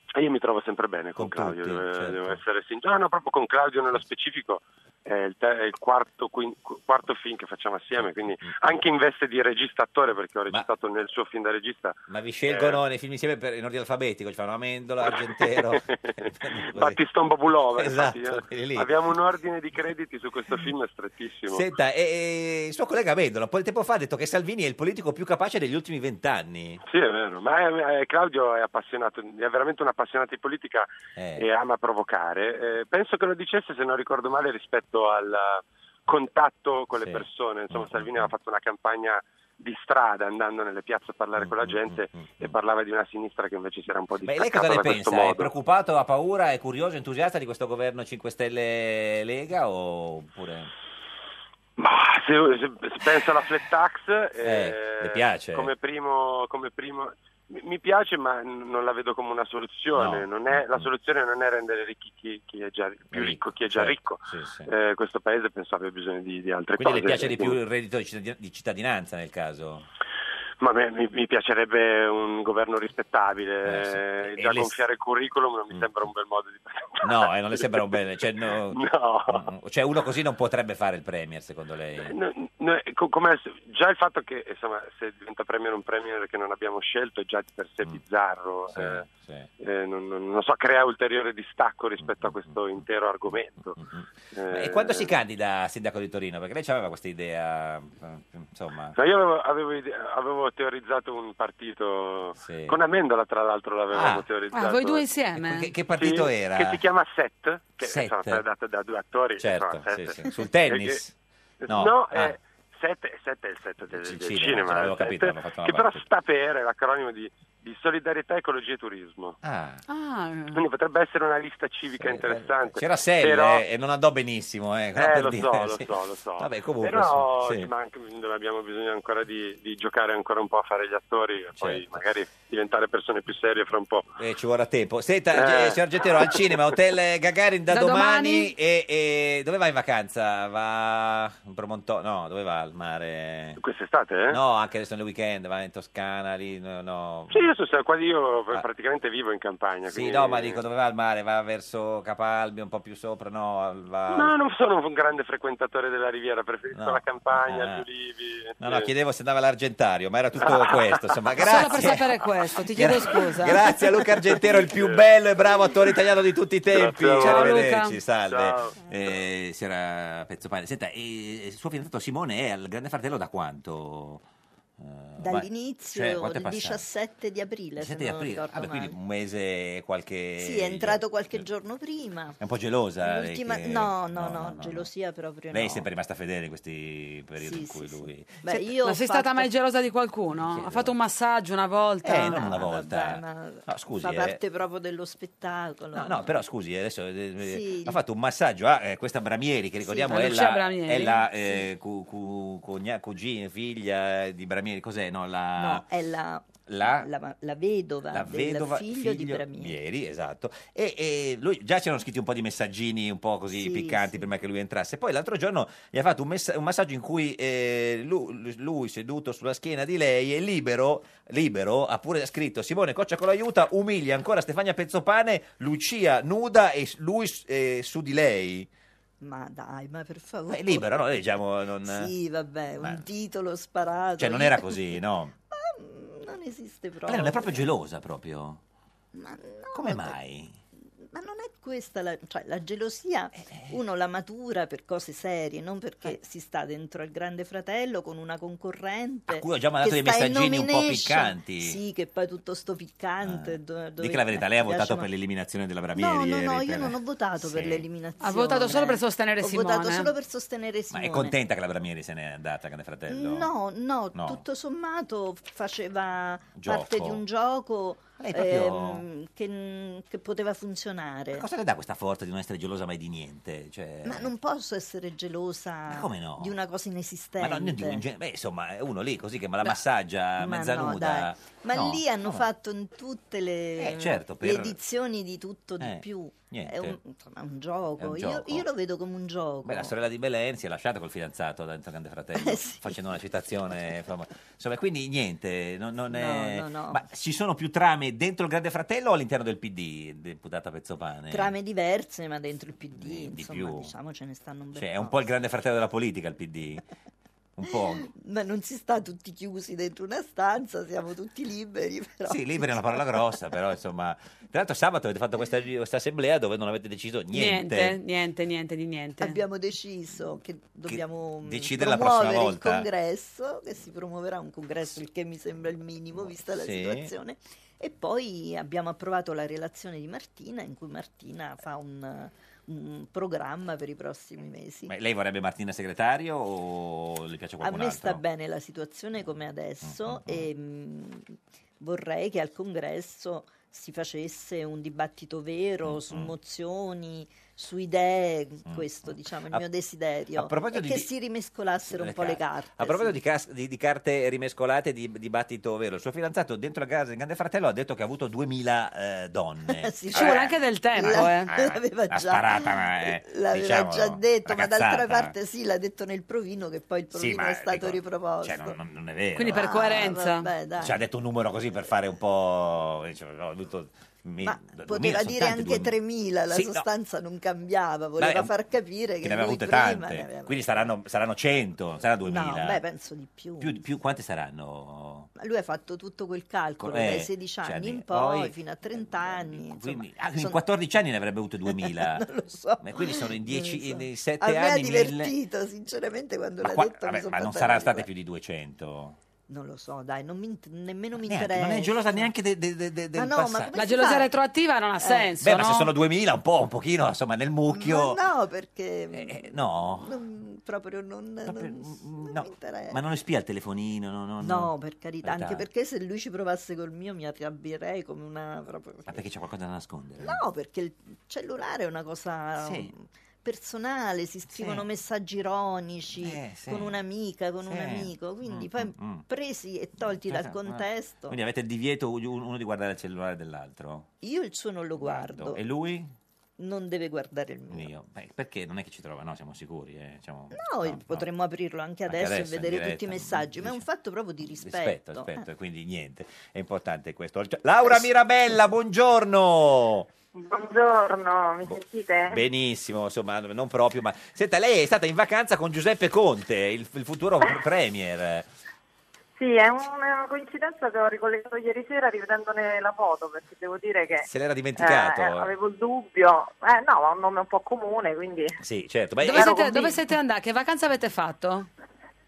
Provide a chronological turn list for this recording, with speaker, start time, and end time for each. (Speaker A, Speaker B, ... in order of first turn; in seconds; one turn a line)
Speaker A: 0.1-12.0
Speaker B: 1.1-2.4
Speaker B: 8.0-8.8
Speaker B: 12.1-15.8
Speaker A: 12.5-12.8
Speaker A: 15.0-21.6
Speaker B: 16.4-17.0
Speaker B: 17.7-18.9
Speaker B: 21.5-26.8
Speaker A: 26.9-45.5
Speaker B: 31.1-31.5
Speaker B: 37.0-38.3
Speaker B: 41.4-42.6
Speaker B: 44.2-50.7
Speaker A: 51.8-67.6
Speaker B: 54.4-55.7
Speaker B: 59.9-60.9
Speaker B: 63.1-64.7
Speaker B: 66.8-69.9
Speaker A: 70.6-77.6
Speaker B: 73.6-74.8
Speaker B: 77.0-82.2
Speaker A: 78.7-79.5
Speaker A: 82.0-89.0
Speaker B: 88.7-89.5
Speaker A: 89.6-93.8
Speaker B: 92.0-92.8
Speaker B: 93.8-99.0
Speaker A: 94.3-95.2
Speaker A: 98.9-105.0
Speaker B: 102.4-102.8
Speaker B: 103.9-104.3
Speaker C: 104.5-105.7
Speaker B: 105.3-106.8
Speaker A: 105.9-111.0
Speaker B: 107.8-108.4
Speaker B: 109.4-111.1
Speaker A: 111.6-119.4
Speaker B: 111.7-112.4
Speaker B: 113.9-116.0
Speaker B: 119.4-119.8
Speaker C: 119.9-120.6
Speaker A: 120.5-123.6
Speaker B: 122.0-127.7
Speaker A: 124.9-134.1
Speaker B: 131.6-132.0
Speaker B: 134.2-143.6
Speaker A: 135.3-136.4
Speaker C: 137.7-138.5
Speaker A: 143.6-144.4
Speaker B: 144.3-147.5
Speaker A: 147.3-150.6
Speaker B: 149.9-154.3
Speaker A: 154.1-158.9
Speaker B: 156.7-157.8
Speaker B: 158.6-162.2
Speaker A: 160.4-161.0
Speaker C: 161.4-163.6
Speaker B: 162.7-174.2
Speaker A: 164.3-165.0
Speaker A: 166.7-167.5
Speaker C: 167.2-167.9
Speaker A: 168.3-168.7
Speaker B: 174.8-176.8
Speaker D: 175.2-178.9
Speaker B: 177.8-181.4
Speaker D: 180.4-182.4
Speaker B: 182.4-184.9
Speaker D: 183.0-185.8
Speaker B: 185.5-188.4
Speaker D: 187.4-189.5
Speaker C: 188.5-192.4
Speaker B: 190.4-190.9
Speaker B: 192.0-194.4
Speaker D: 192.1-196.4
Speaker B: 195.9-205.8
Speaker D: 197.4-198.0
Speaker D: 199.8-200.3
Speaker C: 200.1-201.2
Speaker D: 201.4-201.7
Speaker D: 205.6-209.8
Speaker B: 206.7-207.1
Speaker B: 208.1-228.7
Speaker D: 213.5-214.3
Speaker D: 229.2-231.2
Speaker B: 230.5-232.1
Speaker D: 231.8-235.0
Speaker B: 234.2-235.3
Speaker D: 235.5-237.7
Speaker B: 237.1-238.6
Speaker D: 239.1-240.1
Speaker B: 239.7-240.6
Speaker D: 241.0-255.1
Speaker B: 249.3-251.8
Speaker B: 253.2-257.8
Speaker D: 255.9-261.3
Speaker C: 258.2-260.1
Speaker B: 260.9-263.5
Speaker D: 263.1-271.4
Speaker B: 264.1-264.4
Speaker B: 266.6-267.2
Speaker B: 268.2-269.0
Speaker B: 271.3-274.3
Speaker D: 274.0-278.0
Speaker B: 275.9-276.6
Speaker B: 277.4-282.5
Speaker D: 280.4-289.9
Speaker B: 283.8-284.8
Speaker B: 285.8-287.0
Speaker B: 288.0-288.6
Speaker B: 289.6-301.5
Speaker D: 292.4-292.9
Speaker D: 296.1-297.0
Speaker D: 301.3-305.2
Speaker B: 302.9-303.9
Speaker B: 304.7-306.8
Speaker B: 307.6-308.1
Speaker D: 308.0-313.2
Speaker B: 312.3-318.0
Speaker C: 317.3-319.4
Speaker D: 319.2-334.9
Speaker B: 320.9-322.9
Speaker B: 326.1-327.1
Speaker B: 334.9-338.2
Speaker D: 337.6-353.1
Speaker B: 339.8-340.5
Speaker B: 345.8-346.3
Speaker B: 348.7-349.6
Speaker B: 350.3-351.1
Speaker B: 351.9-365.3
Speaker D: 359.7-368.8
Speaker C: 360.1-361.5
Speaker B: 367.1-369.7
Speaker C: 369.4-370.5
Speaker D: 369.4-371.0
Speaker B: 370.8-375.9
Speaker D: 374.4-380.9
Speaker B: 376.5-376.9
Speaker B: 378.2-378.5
Speaker B: 379.2-382.8
Speaker D: 382.2-383.8
Speaker B: 383.6-385.3
Speaker D: 385.4-390.6
Speaker B: 386.8-392.2
Speaker D: 391.7-398.1
Speaker B: 392.8-395.3
Speaker B: 396.6-399.2
Speaker D: 399.5-402.3
Speaker B: 401.2-403.8
Speaker D: 403.1-404.3
Speaker C: 403.7-405.9
Speaker D: 405.0-405.3
Speaker B: 405.4-408.2
Speaker D: 407.7-413.0
Speaker B: 409.1-410.2
Speaker B: 411.4-414.7
Speaker D: 414.4-419.2
Speaker B: 415.2-415.6
Speaker B: 419.1-420.4
Speaker D: 420.2-431.4
Speaker B: 422.6-422.9
Speaker B: 424.5-424.8
Speaker B: 426.2-427.0
Speaker B: 427.7-429.2
Speaker B: 430.2-434.1
Speaker D: 434.2-435.6
Speaker B: 435.0-436.1
Speaker D: 436.6-437.9
Speaker B: 437.7-441.2
Speaker D: 440.5-445.4
Speaker B: 442.1-443.8
Speaker B: 444.4-450.1
Speaker E: 450.3-452.4
Speaker B: 451.6-458.5
Speaker E: 459.4-464.3
Speaker B: 464.2-465.5
Speaker E: 464.8-468.6
Speaker B: 468.6-469.9
Speaker C: 469.2-471.7
Speaker E: 469.3-469.9